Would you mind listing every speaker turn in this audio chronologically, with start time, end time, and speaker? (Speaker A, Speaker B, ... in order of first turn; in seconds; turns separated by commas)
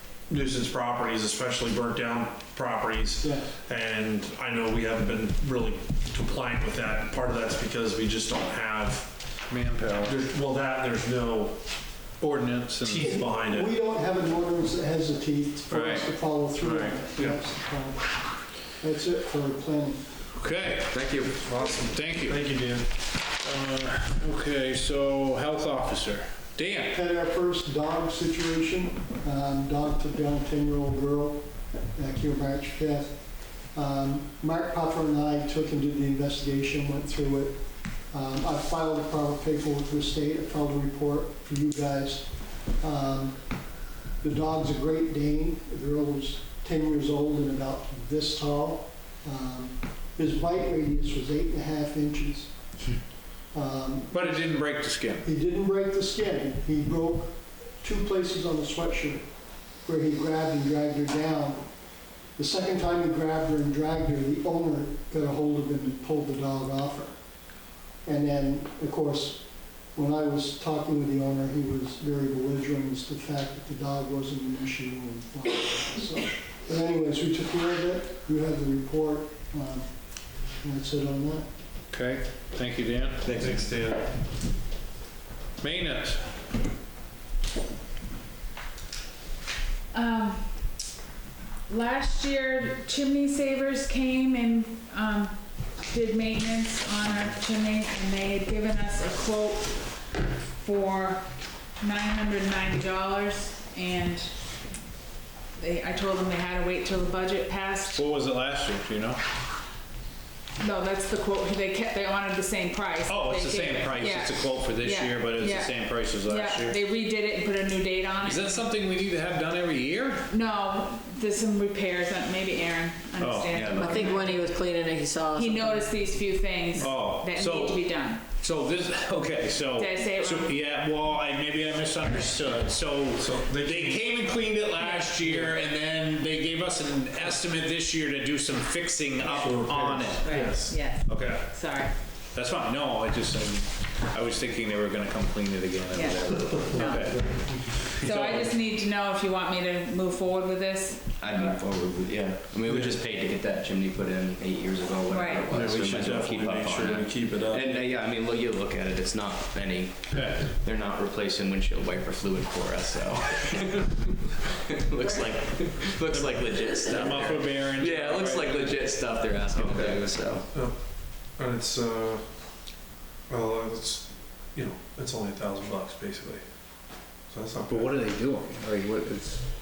Speaker A: 0.3-9.1, Speaker B: 3.2-3.5, Speaker C: 9.5-10.2, Speaker A: 10.0-11.6, Speaker C: 12.2-13.1, Speaker A: 12.8-13.7, Speaker B: 13.0-18.1, Speaker C: 15.7-17.0, Speaker B: 18.8-20.0, Speaker C: 20.3-20.9, Speaker D: 20.9-21.3, Speaker A: 21.3-22.9, Speaker C: 21.9-22.4, Speaker C: 23.4-27.0, Speaker B: 26.9-37.6, Speaker B: 38.1-43.4, Speaker B: 44.2-52.5, Speaker B: 53.5-54.7, Speaker C: 54.1-55.3, Speaker B: 55.2-59.2, Speaker B: 59.8-61.6, Speaker B: 62.4-67.1, Speaker B: 68.0-81.5, Speaker C: 81.9-83.2, Speaker A: 83.2-84.1, Speaker C: 85.6-86.3, Speaker E: 89.9-90.5, Speaker E: 91.7-101.3, Speaker E: 101.8-104.3, Speaker E: 105.6-108.0, Speaker C: 107.9-109.2, Speaker E: 110.6-118.7, Speaker C: 113.0-116.8, Speaker C: 118.2-120.3, Speaker E: 120.3-124.4, Speaker C: 123.2-123.6, Speaker D: 123.5-124.0, Speaker F: 123.7-126.1, Speaker E: 125.3-128.2, Speaker C: 126.8-127.8, Speaker C: 128.4-141.5, Speaker E: 129.7-130.6, Speaker A: 133.2-134.2, Speaker E: 134.8-135.1, Speaker A: 135.2-135.5, Speaker A: 139.2-141.4, Speaker E: 140.2-141.9, Speaker C: 142.3-148.5, Speaker E: 145.9-147.3, Speaker A: 146.8-147.5, Speaker E: 148.0-151.6, Speaker D: 151.2-170.4, Speaker A: 152.7-153.0, Speaker E: 155.1-155.5, Speaker A: 155.5-157.8, Speaker C: 160.1-160.5, Speaker C: 166.9-168.8, Speaker A: 169.6-169.9, Speaker A: 170.5-170.8, Speaker A: 171.4-172.2, Speaker A: 173.3-176.4, Speaker A: 177.3-177.9, Speaker C: 177.7-179.5